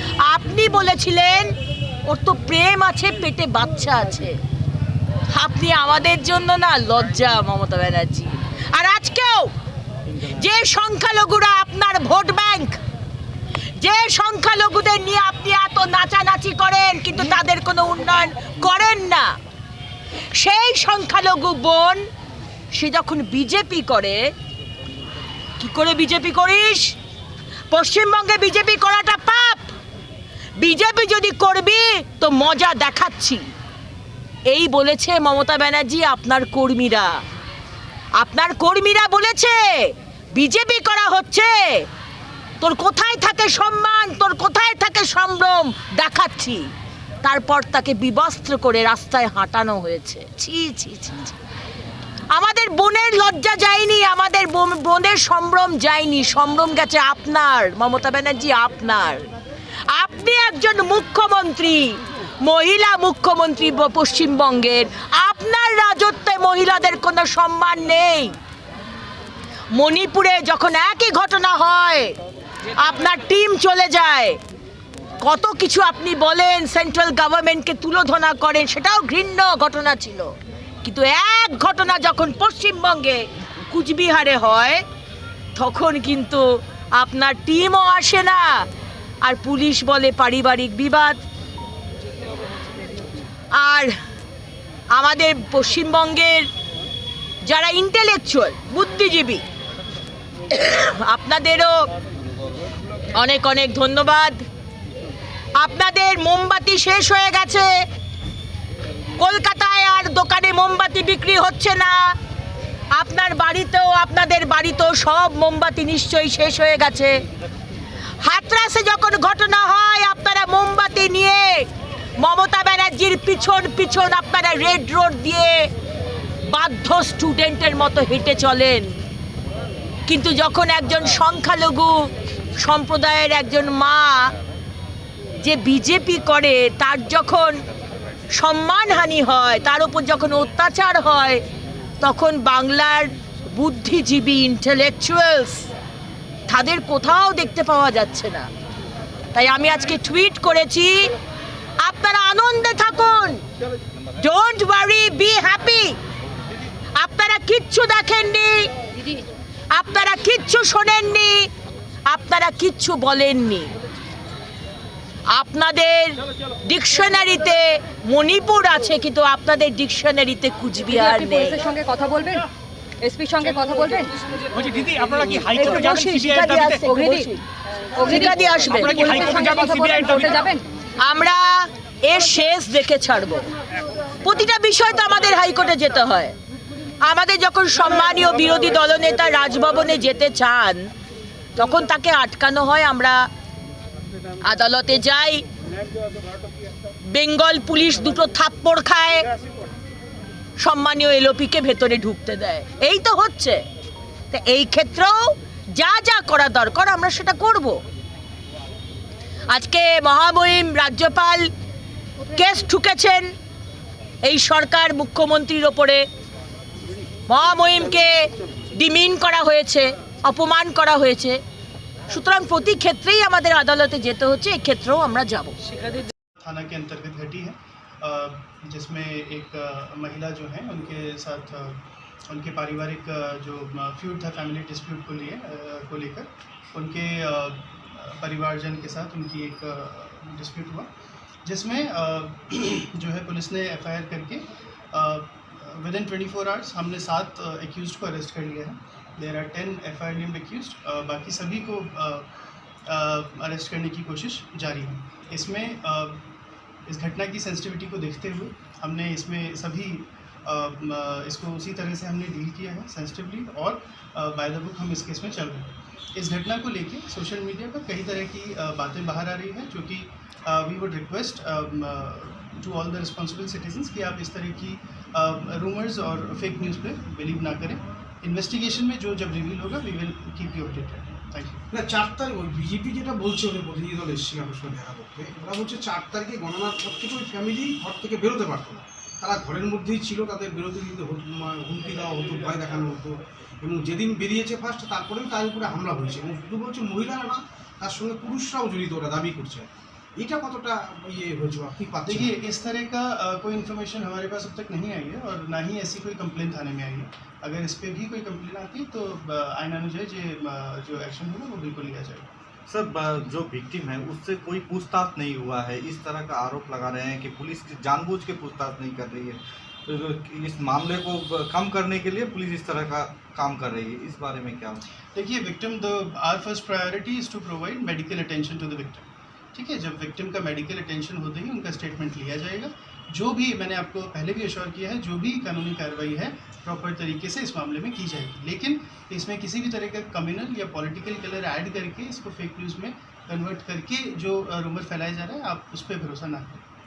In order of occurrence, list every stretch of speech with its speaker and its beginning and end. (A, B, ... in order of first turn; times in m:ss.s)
0:00.2-0:01.5 A
0:02.1-0:04.3 A
0:05.3-0:09.5 A
0:10.3-0:12.8 A
0:13.8-0:19.3 A
0:20.4-0:22.0 A
0:22.7-0:24.2 A
0:25.6-0:26.9 A
0:27.7-0:29.7 A
0:30.6-0:33.4 A
0:34.5-0:37.2 A
0:38.2-0:39.8 A
0:40.3-0:41.8 A
0:42.6-0:46.7 A
0:47.2-0:51.3 A
0:52.3-0:59.3 A
0:59.9-1:08.4 A
1:09.8-1:12.1 A
1:12.8-1:14.3 A
1:15.2-1:20.3 A
1:20.8-1:24.8 A
1:25.6-1:26.4 A
1:27.0-1:28.4 A
1:29.2-1:31.2 A
1:33.6-1:33.9 A
1:34.9-1:36.5 A
1:37.4-1:39.4 A
1:40.5-1:41.7 A
1:43.1-1:44.4 A
1:45.6-1:47.7 A
1:49.2-1:52.0 A
1:53.0-1:57.1 A
1:58.2-2:01.6 A
2:02.2-2:05.6 A
2:06.5-2:08.9 A
2:10.1-2:11.9 A
2:12.6-2:14.3 A
2:15.4-2:17.6 A
2:18.4-2:21.4 A
2:22.0-2:25.7 A
2:26.5-2:28.5 A
2:29.3-2:31.1 A
2:31.8-2:33.4 A
2:34.2-2:35.9 A
2:37.0-2:38.7 A
2:39.7-2:41.5 A
2:42.1-2:43.7 A
2:45.3-2:51.6 A
2:50.9-2:52.4 B
2:53.0-2:54.1 B
2:54.5-2:56.8 C
2:55.5-2:55.9 B
2:55.5-2:56.8 A
2:56.6-2:57.4 B
2:58.0-3:00.6 B
2:58.1-2:58.9 A
2:58.8-3:00.3 C
3:01.0-3:03.4 A
3:04.2-3:06.3 A
3:07.0-3:10.9 A
3:11.6-3:13.2 A
3:14.4-3:15.4 A
3:17.1-3:19.2 A
3:20.6-3:23.6 A
3:24.3-3:25.2 A
3:25.8-3:27.8 A
3:29.5-3:31.5 A
3:32.3-3:33.3 A
3:34.2-3:36.0 A
3:37.3-3:38.1 A
3:38.7-3:41.4 A
3:42.1-3:45.6 A
3:46.4-4:00.9 D
4:01.4-4:12.3 D
4:12.8-4:16.2 D
4:16.8-4:41.6 D
4:41.7-5:02.2 E
5:02.0-5:12.3 D
5:12.7-5:24.8 F
5:25.1-5:46.6 D